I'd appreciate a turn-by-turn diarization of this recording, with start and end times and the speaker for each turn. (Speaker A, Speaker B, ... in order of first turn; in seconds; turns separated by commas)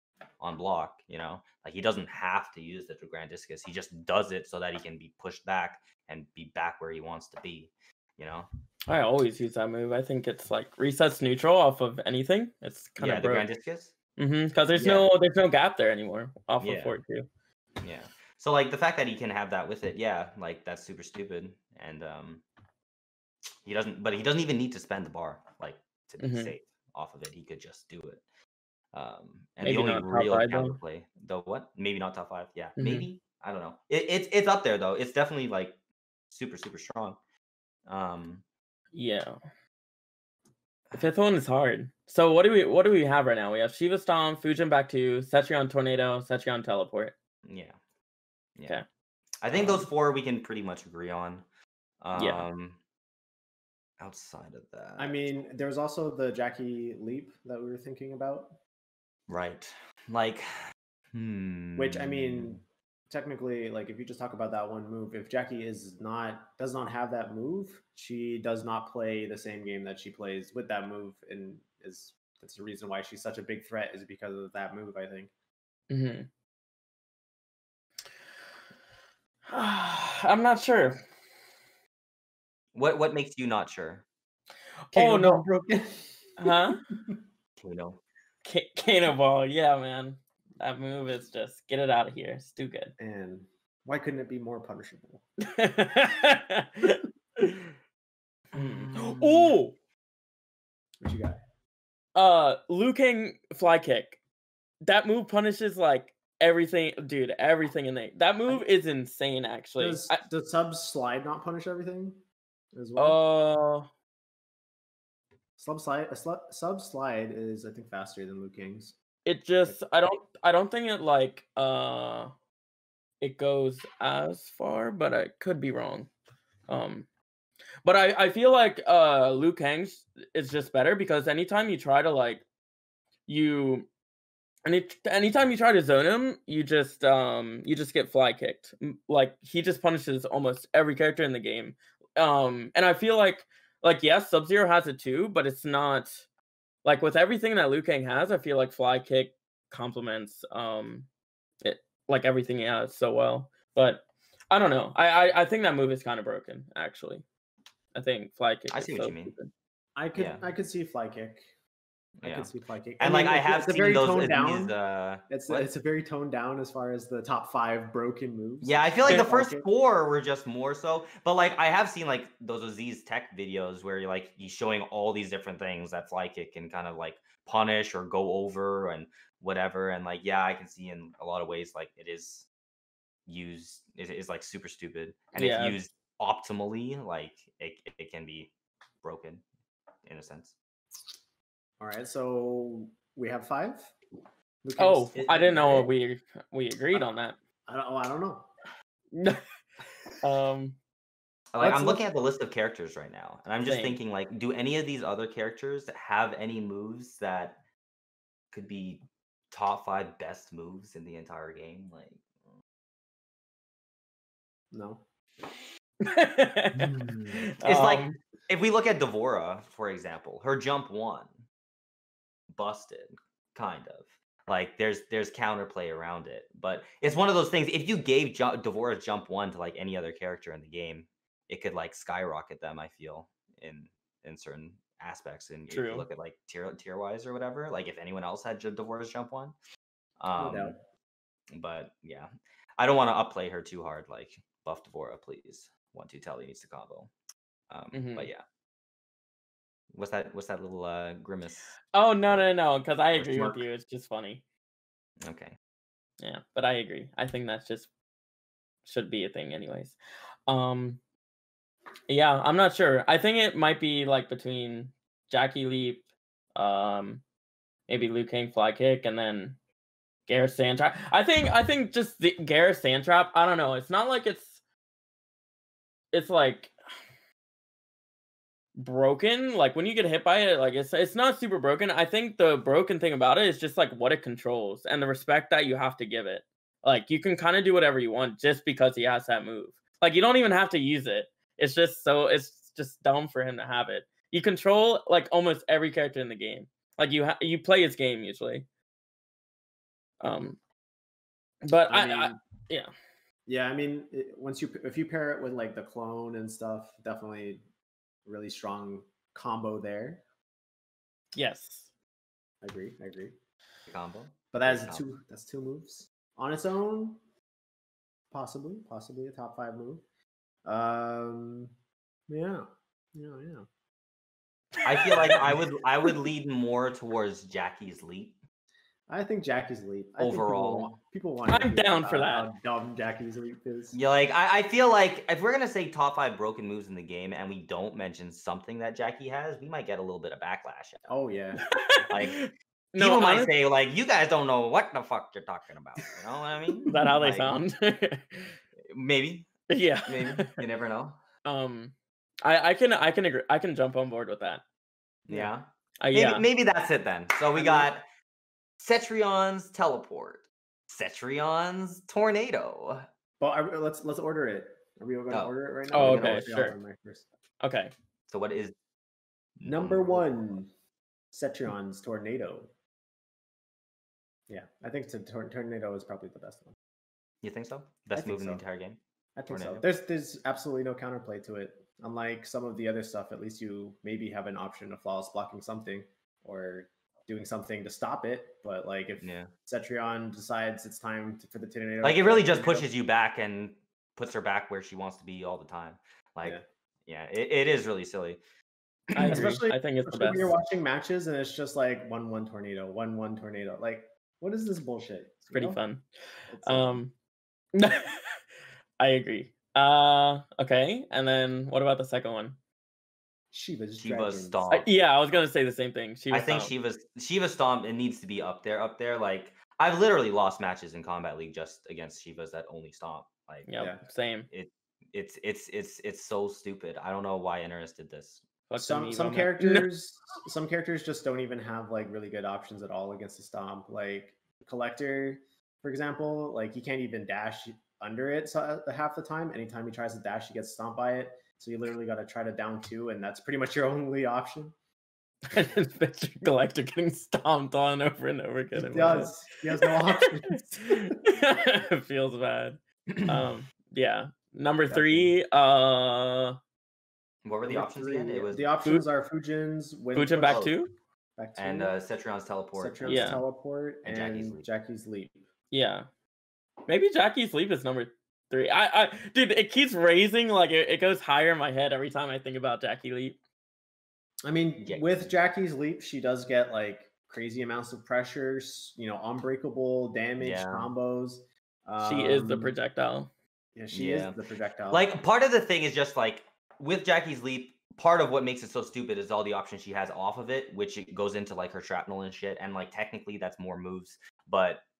Speaker A: 0.4-8.5, Speaker B: 8.9-13.5, Speaker A: 13.0-13.9, Speaker B: 14.2-17.3, Speaker A: 14.7-15.1, Speaker A: 16.6-17.0, Speaker A: 17.8-22.4, Speaker A: 23.6-28.2, Speaker B: 26.2-26.5, Speaker A: 28.9-35.8, Speaker B: 29.6-30.8, Speaker B: 32.8-33.1, Speaker A: 36.3-37.2, Speaker A: 37.9-38.4, Speaker B: 38.9-39.4, Speaker B: 40.9-47.1, Speaker A: 47.5-47.8, Speaker A: 49.4-51.5, Speaker C: 49.5-49.9, Speaker A: 52.0-52.8, Speaker B: 52.1-52.5, Speaker A: 54.0-55.3, Speaker C: 55.0-58.6, Speaker A: 59.3-62.6, Speaker C: 61.8-75.3, Speaker B: 75.9-76.3, Speaker B: 79.5-81.0, Speaker A: 82.7-84.0, Speaker B: 84.9-85.5, Speaker C: 85.0-87.1, Speaker B: 86.4-86.8, Speaker A: 87.6-88.0, Speaker B: 88.5-92.9, Speaker C: 93.0-95.2, Speaker B: 95.4-97.7, Speaker B: 98.5-99.8, Speaker A: 98.5-99.6, Speaker C: 101.0-101.4, Speaker B: 102.2-104.2, Speaker B: 104.8-110.2, Speaker C: 109.8-112.2, Speaker C: 112.7-113.2, Speaker B: 113.0-113.9, Speaker C: 115.6-119.0, Speaker B: 119.2-122.3, Speaker B: 123.2-126.1, Speaker B: 126.7-127.1, Speaker B: 127.8-132.4, Speaker B: 133.3-133.9, Speaker B: 134.7-146.2, Speaker B: 146.8-151.1, Speaker B: 151.6-157.2, Speaker B: 157.9-159.5, Speaker A: 158.7-159.3, Speaker C: 160.0-161.5, Speaker A: 160.2-160.5, Speaker A: 162.2-165.7, Speaker C: 162.2-164.8, Speaker C: 165.3-169.7, Speaker A: 168.6-182.5, Speaker A: 183.3-188.5, Speaker B: 185.3-185.8, Speaker A: 189.0-189.4, Speaker A: 190.0-190.6, Speaker C: 191.8-193.9, Speaker C: 194.6-195.9, Speaker B: 194.8-197.4, Speaker C: 197.7-198.5, Speaker B: 199.1-199.4, Speaker B: 200.2-200.8, Speaker A: 201.5-207.6, Speaker C: 201.6-202.0, Speaker B: 203.6-204.0, Speaker A: 208.5-212.2, Speaker C: 214.7-215.0, Speaker B: 216.0-218.2, Speaker C: 216.8-217.5, Speaker A: 217.6-221.4, Speaker A: 222.5-239.6, Speaker B: 235.7-236.1, Speaker A: 240.2-240.8, Speaker C: 240.4-240.8, Speaker A: 241.5-247.1, Speaker A: 247.7-248.4, Speaker B: 247.9-248.3, Speaker A: 249.9-251.8, Speaker B: 251.9-254.4, Speaker A: 253.2-253.6, Speaker C: 253.3-253.6, Speaker A: 255.2-255.6, Speaker B: 256.2-257.9, Speaker B: 258.9-260.0, Speaker B: 260.5-261.0, Speaker B: 262.1-267.2, Speaker B: 267.9-269.6, Speaker B: 270.3-274.6, Speaker B: 276.1-276.7, Speaker B: 278.8-298.7, Speaker B: 300.2-300.6, Speaker B: 301.6-302.9, Speaker C: 301.9-302.4, Speaker C: 303.5-307.6, Speaker C: 308.2-310.2, Speaker B: 311.4-311.9, Speaker C: 312.6-313.4, Speaker A: 313.9-315.0, Speaker C: 314.5-317.2, Speaker C: 318.3-320.0, Speaker C: 320.6-321.7, Speaker C: 322.3-323.7, Speaker B: 324.8-325.5, Speaker A: 324.8-328.4, Speaker C: 329.1-334.0, Speaker A: 330.2-331.0, Speaker B: 331.5-332.5, Speaker A: 333.9-341.1, Speaker C: 341.1-341.7, Speaker B: 341.7-343.5, Speaker A: 342.1-342.4, Speaker A: 343.0-347.6, Speaker B: 346.9-348.6, Speaker A: 348.9-351.2, Speaker B: 349.7-350.6, Speaker B: 351.4-354.6, Speaker A: 355.3-358.1, Speaker C: 355.3-355.5, Speaker B: 356.0-356.5, Speaker C: 357.5-357.9, Speaker A: 358.8-363.1, Speaker C: 363.4-367.3, Speaker A: 365.3-366.6, Speaker B: 365.9-366.8, Speaker B: 367.6-367.9, Speaker A: 368.3-368.7, Speaker A: 369.6-370.2, Speaker C: 369.6-370.7, Speaker C: 371.3-372.7, Speaker C: 374.5-376.8, Speaker A: 377.4-379.8, Speaker C: 378.1-378.6, Speaker C: 379.4-392.9, Speaker A: 389.2-389.5, Speaker A: 392.0-398.4, Speaker A: 399.1-399.6, Speaker B: 399.2-400.6, Speaker C: 399.2-405.8, Speaker B: 405.5-406.1, Speaker C: 406.5-407.0, Speaker B: 406.6-407.1, Speaker B: 407.8-408.4, Speaker B: 409.0-412.6, Speaker C: 413.5-414.6, Speaker A: 414.0-414.9, Speaker B: 414.7-416.7, Speaker A: 416.3-423.7, Speaker B: 423.7-424.5, Speaker A: 424.5-428.4, Speaker B: 428.7-429.9, Speaker C: 428.8-444.8, Speaker B: 445.5-456.6, Speaker C: 448.8-451.3, Speaker A: 453.1-453.4, Speaker C: 454.9-455.4, Speaker A: 457.4-458.7, Speaker C: 457.7-460.7, Speaker B: 460.1-460.9, Speaker A: 460.4-460.8, Speaker C: 461.4-461.9, Speaker A: 461.6-463.4, Speaker C: 462.8-465.4, Speaker B: 463.1-463.4, Speaker A: 464.1-464.7, Speaker B: 465.7-466.1, Speaker B: 466.9-473.4, Speaker C: 474.4-482.8, Speaker A: 474.8-475.3, Speaker A: 480.4-480.9, Speaker B: 482.0-483.3, Speaker C: 483.8-485.1, Speaker A: 483.9-484.4, Speaker A: 484.9-494.8